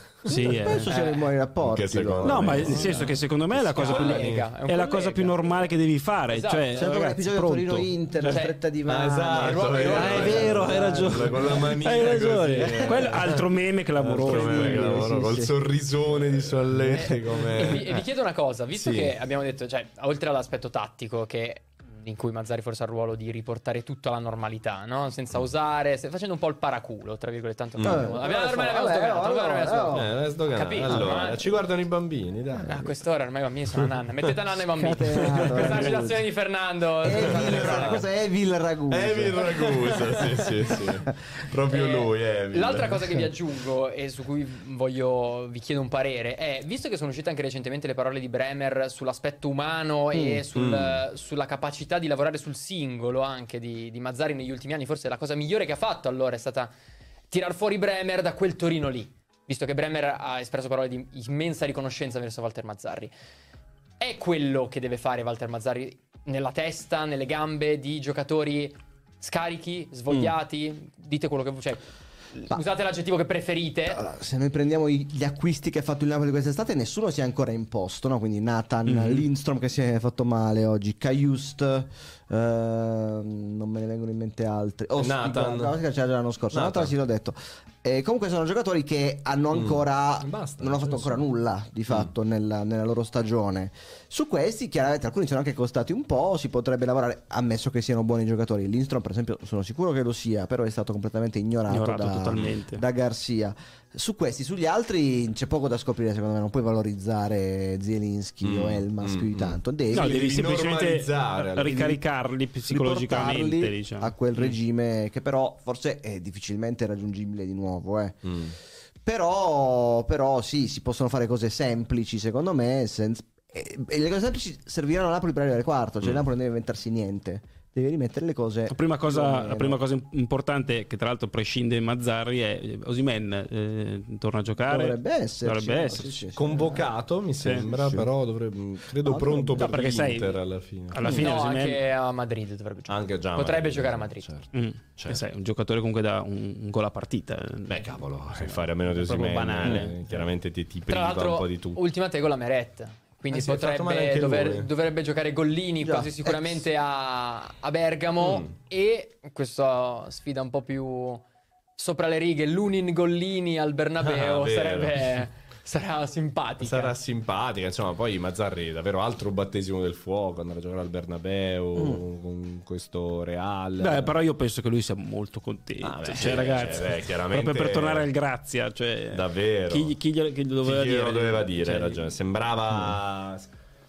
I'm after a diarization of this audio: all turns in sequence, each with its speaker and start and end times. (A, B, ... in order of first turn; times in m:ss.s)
0:00.3-0:00.9 A
0:00.3-0:03.1 B
0:00.8-0:01.3 C
0:01.6-0:04.5 D
0:02.2-0:08.3 A
0:03.7-0:05.7 C
0:06.3-0:06.9 C
0:06.8-0:11.5 B
0:08.2-0:08.6 C
0:08.9-0:13.4 D
0:09.3-0:10.5 C
0:10.0-0:15.0 A
0:12.6-0:13.1 B
0:14.0-0:18.0 D
0:14.2-0:15.5 B
0:16.9-0:31.5 C
0:18.7-0:19.1 D
0:27.8-0:28.1 D
0:27.8-0:30.1 B
0:29.9-0:32.9 D
0:30.9-0:31.2 B
0:32.6-0:38.0 C
0:33.8-0:34.3 D
0:34.8-0:36.2 B
0:35.1-0:35.5 D
0:35.6-0:36.1 A
0:37.0-0:39.4 B
0:37.2-0:38.0 D
0:38.9-0:43.0 D
0:39.3-0:40.4 C
0:41.7-0:56.7 C
0:50.1-0:50.4 B
0:50.5-0:51.0 D
0:57.3-1:03.1 C
1:04.0-1:14.0 C
1:13.9-1:50.3 B
1:18.8-1:19.2 A
1:25.0-1:25.7 D
1:26.5-1:26.9 D
1:29.5-1:31.2 D
1:41.7-1:42.8 A
1:48.4-1:52.0 D
1:49.9-1:54.4 A
1:52.7-1:58.2 B
1:58.2-1:58.6 D
1:59.0-2:09.8 B
2:08.7-2:16.3 A
2:14.6-2:16.9 B
2:16.3-2:21.3 D
2:17.4-2:17.7 A
2:17.8-2:18.1 B
2:19.0-2:19.7 B
2:19.5-2:20.4 A
2:20.9-2:21.8 A
2:21.0-2:24.3 C
2:22.9-2:25.2 D
2:24.5-2:30.2 A
2:27.7-2:31.8 D
2:29.6-2:29.9 B
2:30.9-2:41.2 C
2:33.3-2:34.7 D
2:35.8-2:36.6 B
2:38.2-2:38.5 D
2:41.8-2:46.9 C
2:44.0-2:45.0 D
2:46.6-2:54.1 D
2:53.8-3:02.1 A
2:55.8-2:58.1 D
2:59.1-2:59.9 D
3:00.6-3:03.5 D